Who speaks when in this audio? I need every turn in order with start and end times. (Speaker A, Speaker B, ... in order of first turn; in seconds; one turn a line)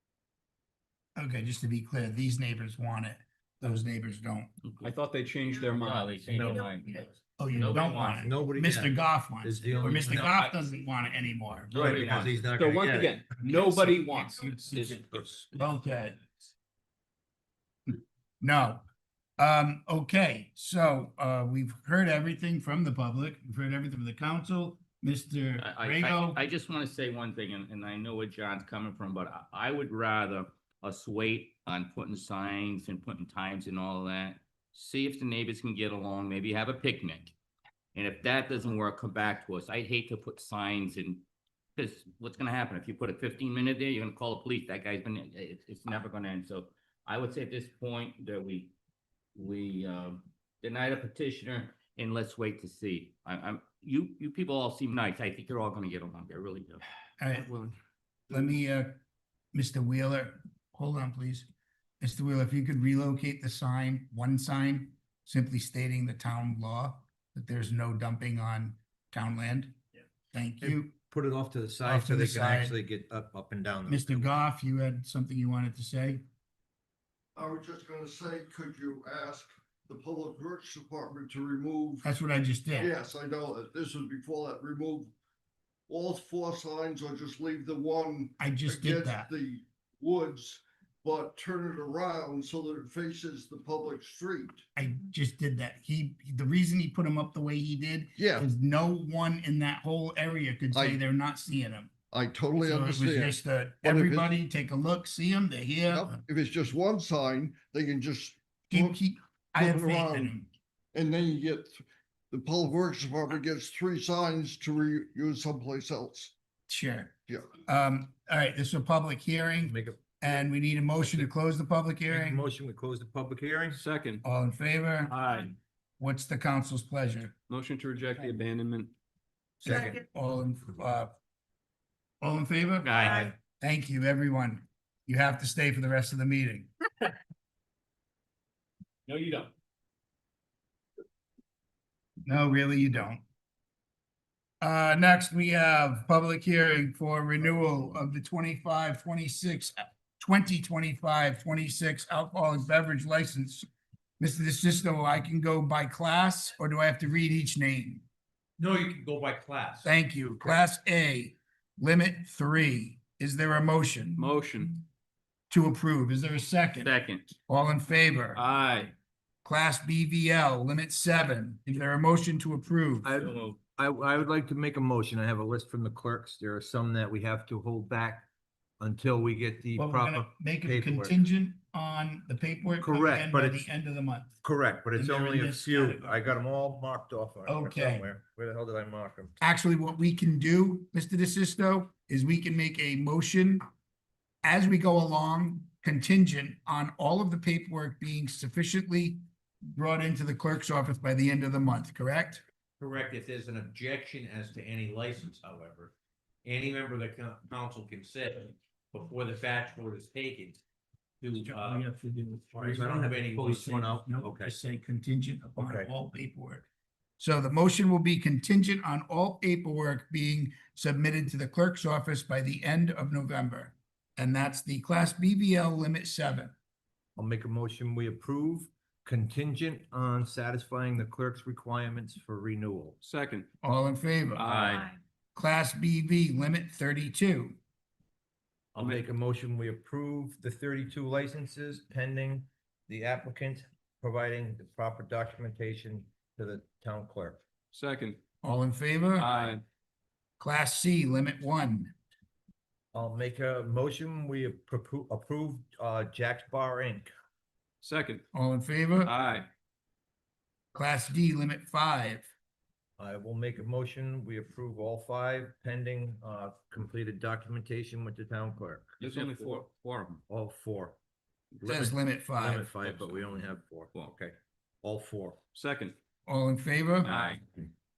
Speaker A: 1.1-4.5
Speaker B: 4.6-4.9
Speaker C: 4.8-6.6
Speaker B: 5.6-8.3
Speaker D: 6.3-6.7
Speaker A: 7.4-12.3
Speaker D: 8.2-10.5
Speaker B: 11.7-12.4
Speaker D: 11.7-13.2
Speaker C: 12.5-15.1
Speaker A: 13.4-16.2
Speaker A: 17.9-18.8
Speaker A: 19.4-26.4
Speaker B: 25.6-37.3
Speaker B: 37.9-41.2
Speaker B: 41.8-48.7
Speaker B: 49.3-56.8
Speaker A: 57.2-57.7
Speaker A: 58.3-59.0
Speaker A: 59.5-61.5
Speaker A: 62.0-69.8
Speaker A: 70.3-70.9
Speaker D: 70.6-74.4
Speaker A: 71.8-72.8
Speaker A: 73.9-76.2
Speaker E: 77.3-82.0
Speaker A: 82.0-82.9
Speaker E: 82.7-85.1
Speaker E: 85.9-94.6
Speaker A: 88.4-89.3
Speaker A: 94.8-101.9
Speaker E: 98.2-98.5
Speaker E: 100.7-101.0
Speaker E: 102.1-104.3
Speaker A: 102.6-106.2
Speaker E: 105.9-109.0
Speaker A: 108.7-110.5
Speaker E: 109.5-110.3
Speaker E: 110.9-116.3
Speaker A: 116.7-122.4
Speaker E: 117.3-117.6
Speaker D: 119.6-120.1
Speaker D: 121.0-121.3
Speaker D: 122.1-123.8
Speaker C: 123.7-124.2
Speaker A: 124.2-125.2
Speaker C: 125.1-125.5
Speaker A: 126.0-127.3
Speaker C: 127.5-128.9
Speaker D: 129.6-130.0
Speaker A: 129.6-131.1
Speaker A: 132.2-136.7
Speaker B: 132.8-133.3
Speaker D: 133.1-133.3
Speaker C: 139.1-139.5
Speaker A: 142.2-143.2
Speaker A: 144.6-153.7
Speaker A: 154.2-158.0
Speaker F: 158.6-159.9
Speaker A: 159.8-164.3
Speaker C: 164.2-164.8
Speaker A: 165.5-166.9
Speaker B: 166.8-167.3
Speaker A: 167.5-168.4
Speaker C: 168.3-168.9
Speaker A: 169.4-173.1
Speaker D: 173.0-178.3
Speaker B: 173.2-173.6
Speaker D: 178.8-181.2
Speaker A: 179.8-184.3
Speaker D: 182.8-183.7
Speaker D: 184.4-189.3
Speaker A: 184.9-186.2
Speaker A: 187.4-188.1
Speaker A: 189.4-193.6
Speaker A: 194.4-202.4
Speaker F: 202.8-205.9
Speaker F: 206.4-210.6
Speaker F: 211.2-211.8
Speaker A: 211.4-216.6
Speaker F: 212.5-213.8
Speaker D: 212.6-214.6
Speaker D: 215.6-215.9
Speaker A: 217.2-226.5
Speaker D: 227.2-233.0
Speaker C: 233.0-233.5
Speaker A: 233.6-234.5
Speaker C: 234.4-234.9
Speaker B: 234.5-234.9
Speaker A: 235.3-237.6
Speaker D: 238.7-247.4
Speaker C: 247.7-248.2
Speaker A: 248.4-249.5
Speaker C: 249.2-249.6
Speaker A: 250.4-251.9
Speaker D: 252.9-257.1
Speaker C: 257.8-258.2
Speaker A: 258.3-259.1
Speaker C: 259.0-259.5
Speaker A: 260.7-262.3
Speaker D: 263.0-268.9
Speaker C: 269.0-269.6
Speaker B: 269.0-270.2
Speaker D: 270.3-271.0
Speaker D: 271.6-275.4
Speaker A: 271.6-272.7
Speaker C: 275.5-275.9
Speaker A: 276.3-277.2
Speaker C: 277.0-277.4